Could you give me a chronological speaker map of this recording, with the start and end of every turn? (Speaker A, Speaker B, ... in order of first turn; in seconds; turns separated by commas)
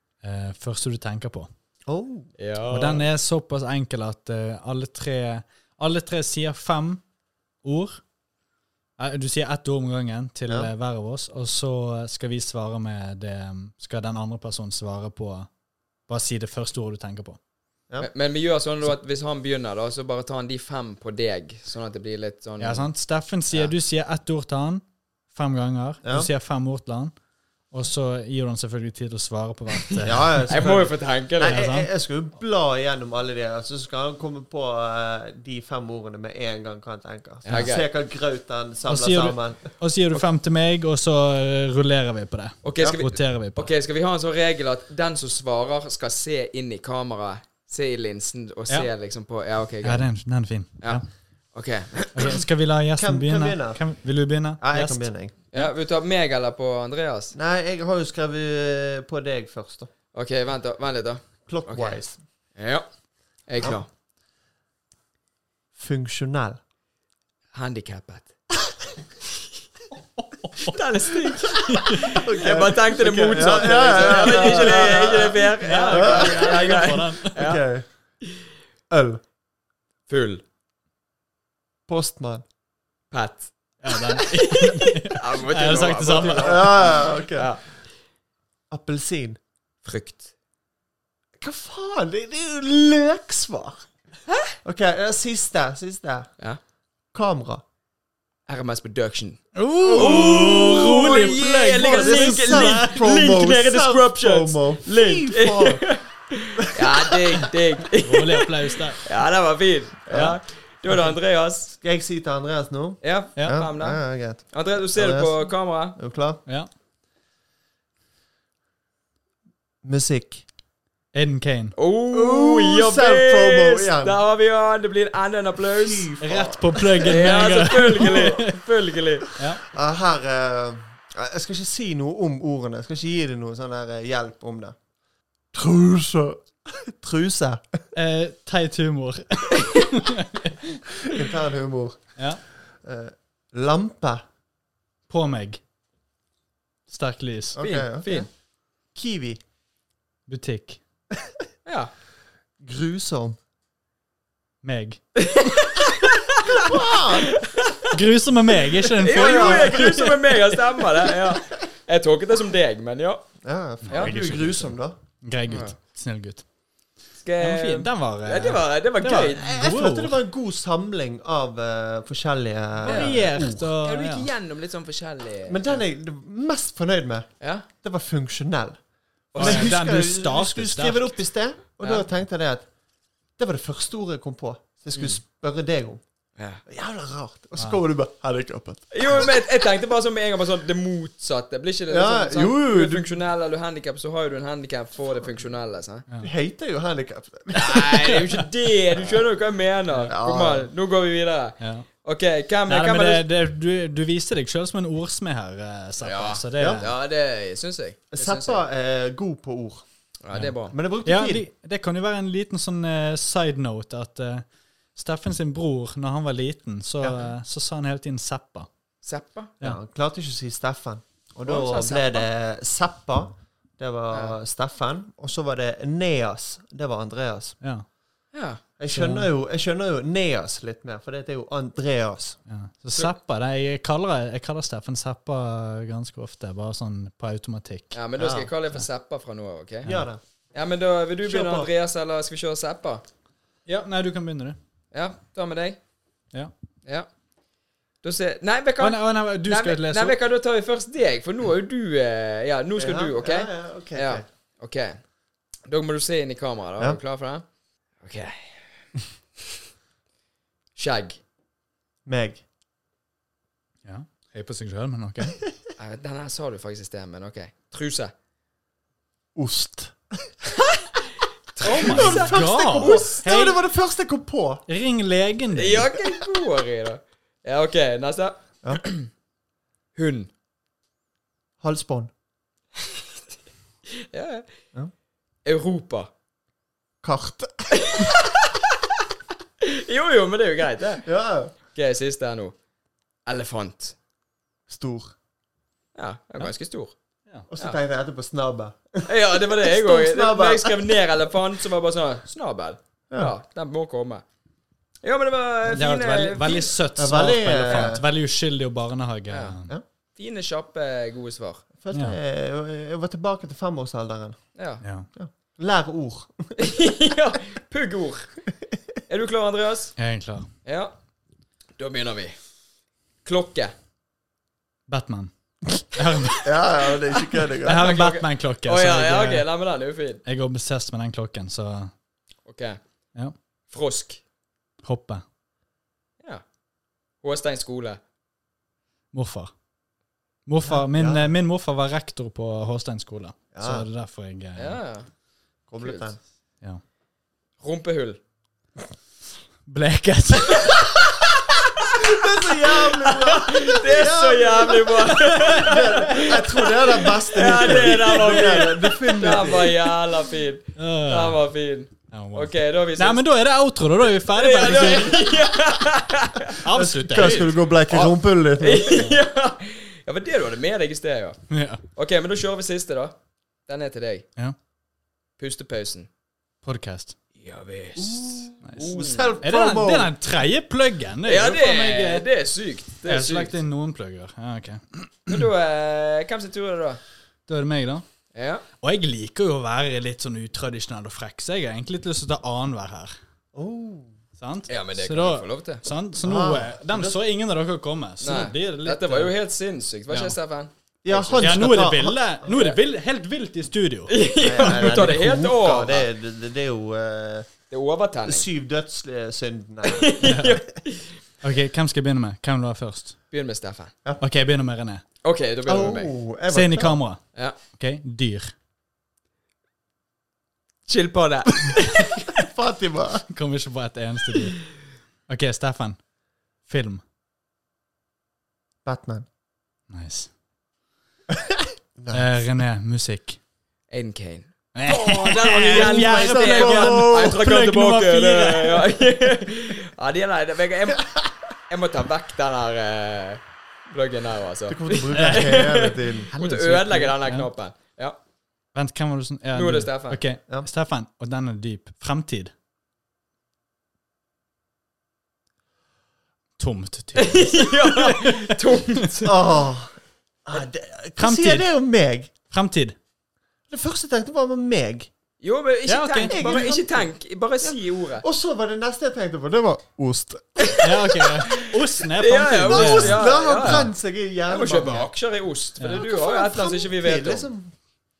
Speaker A: 0.2-1.5, Speaker B: 1.9-2.3, Speaker C: 2.4-3.1, Speaker A: 2.7-7.0, Speaker A: 7.6-8.0, Speaker A: 9.0-15.5, Speaker A: 16.1-17.4, Speaker C: 18.0-22.9, Speaker A: 22.6-27.1, Speaker B: 26.0-26.3, Speaker A: 27.7-30.6, Speaker B: 30.0-39.7, Speaker C: 30.5-31.6, Speaker A: 31.5-31.9, Speaker C: 37.5-37.9, Speaker A: 38.9-43.7, Speaker C: 42.6-50.1, Speaker A: 49.8-51.0, Speaker C: 51.5-52.4, Speaker A: 52.1-55.7, Speaker B: 53.0-53.8, Speaker B: 54.6-55.4, Speaker C: 55.5-57.4, Speaker B: 57.4-59.9, Speaker C: 60.1-62.0, Speaker B: 61.5-62.2, Speaker C: 62.6-62.9, Speaker C: 63.5-63.9, Speaker B: 65.8-66.6, Speaker C: 67.5-68.3, Speaker A: 70.2-72.2, Speaker C: 70.7-77.6, Speaker B: 72.0-76.7, Speaker A: 74.3-74.7, Speaker A: 75.6-77.5, Speaker B: 77.3-77.8, Speaker B: 78.9-79.2, Speaker C: 80.1-80.4, Speaker B: 81.9-82.5, Speaker C: 83.1-87.6, Speaker A: 83.8-86.7, Speaker B: 86.4-87.5, Speaker B: 88.7-89.4, Speaker C: 89.8-90.3, Speaker B: 91.4-93.9, Speaker C: 94.3-94.5, Speaker B: 94.6-96.3, Speaker B: 97.1-97.6, Speaker C: 98.5-99.4, Speaker A: 99.6-102.9, Speaker B: 99.8-105.9, Speaker C: 100.0-111.8, Speaker B: 106.6-107.5, Speaker A: 108.0-109.0, Speaker A: 110.1-110.4, Speaker A: 110.9-111.2, Speaker B: 111.8-116.4, Speaker C: 113.0-116.0, Speaker A: 113.4-113.6, Speaker B: 119.8-120.4, Speaker A: 121.1-121.7, Speaker C: 121.8-126.1, Speaker B: 122.1-124.2, Speaker B: 125.7-127.2, Speaker A: 126.2-128.6, Speaker C: 127.0-129.4, Speaker B: 129.7-134.8, Speaker B: 135.5-137.8, Speaker A: 137.9-140.8, Speaker B: 140.9-142.1, Speaker B: 142.8-144.2, Speaker A: 145.1-145.6, Speaker A: 146.9-147.6, Speaker B: 147.6-148.3, Speaker C: 147.6-148.3, Speaker B: 148.9-149.4, Speaker A: 150.3-150.8, Speaker C: 151.7-151.9, Speaker B: 152.6-153.4, Speaker A: 154.6-155.0, Speaker C: 155.2-157.9, Speaker B: 156.5-157.3, Speaker A: 157.9-161.1, Speaker C: 159.0-163.2, Speaker B: 159.0-159.8, Speaker B: 163.4-165.0, Speaker A: 163.8-166.4, Speaker C: 165.5-165.7, Speaker C: 167.2-169.4, Speaker A: 167.4-170.2, Speaker B: 169.4-173.7, Speaker C: 172.8-173.3, Speaker A: 172.8-174.3, Speaker C: 173.8-175.8, Speaker B: 175.5-177.3, Speaker C: 177.4-177.7, Speaker B: 177.8-178.8, Speaker C: 179.3-179.8, Speaker B: 179.3-182.7, Speaker A: 179.4-181.1, Speaker B: 183.4-186.0, Speaker C: 184.9-185.2, Speaker B: 186.7-189.3, Speaker C: 188.9-196.1, Speaker B: 191.9-193.1, Speaker B: 196.2-198.4, Speaker C: 197.5-203.3, Speaker B: 198.9-199.2, Speaker B: 200.1-200.7, Speaker A: 201.6-201.9, Speaker A: 202.7-206.9, Speaker C: 206.0-208.6, Speaker B: 206.6-206.9, Speaker B: 208.1-209.8, Speaker C: 210.2-210.7, Speaker B: 210.7-211.5, Speaker A: 211.1-218.7, Speaker C: 219.0-219.5, Speaker B: 219.6-227.6, Speaker C: 221.4-222.3, Speaker C: 224.1-224.4, Speaker C: 228.3-228.6, Speaker B: 228.8-232.4, Speaker A: 228.9-229.3, Speaker A: 232.5-238.0, Speaker C: 237.9-239.9, Speaker B: 238.2-238.5, Speaker B: 239.8-240.2, Speaker C: 240.5-243.0, Speaker B: 241.2-241.7, Speaker A: 243.7-244.6, Speaker C: 244.9-245.8, Speaker C: 248.0-255.0, Speaker A: 248.8-250.2, Speaker B: 252.8-254.2, Speaker C: 255.7-257.4, Speaker C: 258.0-258.7, Speaker C: 260.8-261.2, Speaker B: 262.1-262.4, Speaker A: 263.9-265.4, Speaker C: 265.8-268.1, Speaker B: 269.4-270.4, Speaker C: 271.6-273.2, Speaker A: 271.6-273.6, Speaker B: 271.6-274.6, Speaker A: 274.7-275.9, Speaker C: 275.5-279.1, Speaker C: 280.0-280.3, Speaker B: 281.6-282.1, Speaker C: 283.9-284.4, Speaker C: 285.4-286.1, Speaker B: 287.0-288.1, Speaker C: 287.7-288.9, Speaker C: 289.6-291.1, Speaker B: 291.0-291.5, Speaker C: 291.7-292.6, Speaker C: 293.3-293.9, Speaker B: 294.7-295.1, Speaker C: 295.9-296.9, Speaker B: 297.5-301.0, Speaker C: 299.1-304.2, Speaker C: 305.0-306.8, Speaker A: 305.7-309.7, Speaker B: 307.0-308.1, Speaker C: 309.3-309.6, Speaker C: 310.2-311.6, Speaker B: 311.8-314.4, Speaker C: 314.6-314.8, Speaker A: 314.8-315.1, Speaker B: 315.2-316.7, Speaker C: 316.6-318.4, Speaker C: 319.1-320.0, Speaker A: 320.0-320.5, Speaker C: 320.6-320.9, Speaker C: 321.8-322.4, Speaker C: 323.2-323.7, Speaker A: 324.9-326.5, Speaker B: 326.4-327.9, Speaker C: 327.1-330.2, Speaker A: 327.6-329.5, Speaker A: 330.2-331.9, Speaker C: 332.5-332.8, Speaker C: 333.7-334.2, Speaker A: 334.8-335.2, Speaker C: 337.2-338.0, Speaker A: 339.1-339.5, Speaker A: 340.5-344.8, Speaker B: 340.6-341.3, Speaker B: 343.5-343.9, Speaker C: 344.6-345.1, Speaker B: 345.7-346.2, Speaker C: 345.8-346.1, Speaker C: 347.6-348.2, Speaker A: 349.7-351.1, Speaker C: 350.7-363.2, Speaker B: 351.9-360.0, Speaker A: 360.8-361.4, Speaker A: 362.1-365.3, Speaker C: 364.3-366.6, Speaker A: 366.6-367.6, Speaker B: 366.7-369.0, Speaker C: 367.2-371.4, Speaker A: 371.5-371.8, Speaker C: 371.9-373.2, Speaker C: 373.7-374.3, Speaker C: 375.4-376.1, Speaker A: 376.6-377.2, Speaker C: 377.4-379.4, Speaker B: 378.0-380.1, Speaker A: 378.6-382.3, Speaker C: 381.2-383.6, Speaker A: 383.0-385.5, Speaker C: 385.3-387.0, Speaker A: 387.5-388.1, Speaker C: 388.3-388.6, Speaker A: 388.8-393.1, Speaker B: 393.5-394.1, Speaker A: 394.4-399.3, Speaker C: 394.7-395.9, Speaker B: 396.2-397.2, Speaker C: 398.2-401.6, Speaker A: 400.1-400.4, Speaker B: 401.0-402.4, Speaker A: 401.4-405.1, Speaker C: 404.1-406.1, Speaker B: 404.4-407.5, Speaker C: 407.7-408.5, Speaker B: 408.2-410.2, Speaker C: 409.8-411.1, Speaker A: 410.3-410.6, Speaker A: 411.4-413.2, Speaker C: 413.3-413.9, Speaker A: 414.2-415.0, Speaker C: 415.2-416.1, Speaker B: 415.7-416.9, Speaker A: 416.5-418.5, Speaker C: 420.9-422.4, Speaker B: 422.3-423.3, Speaker A: 423.3-424.6, Speaker A: 425.3-426.0, Speaker A: 426.7-427.0, Speaker B: 428.9-429.3, Speaker A: 429.9-430.3, Speaker B: 431.3-432.3, Speaker A: 432.1-433.4, Speaker C: 433.9-448.2, Speaker A: 434.8-438.9, Speaker B: 435.6-437.4, Speaker B: 444.7-446.3, Speaker A: 445.1-445.7, Speaker A: 446.3-447.5, Speaker A: 448.7-452.5, Speaker C: 449.5-450.2, Speaker A: 456.6-458.5, Speaker C: 457.2-459.5, Speaker B: 459.2-459.9, Speaker B: 460.5-462.3, Speaker A: 461.2-461.7, Speaker A: 462.5-462.9, Speaker B: 463.7-465.1, Speaker C: 465.4-468.2, Speaker A: 465.9-466.5, Speaker B: 466.3-467.1, Speaker B: 467.6-470.8, Speaker C: 470.6-473.9, Speaker A: 470.8-473.9, Speaker B: 472.7-475.1, Speaker C: 474.5-477.5, Speaker B: 475.9-477.7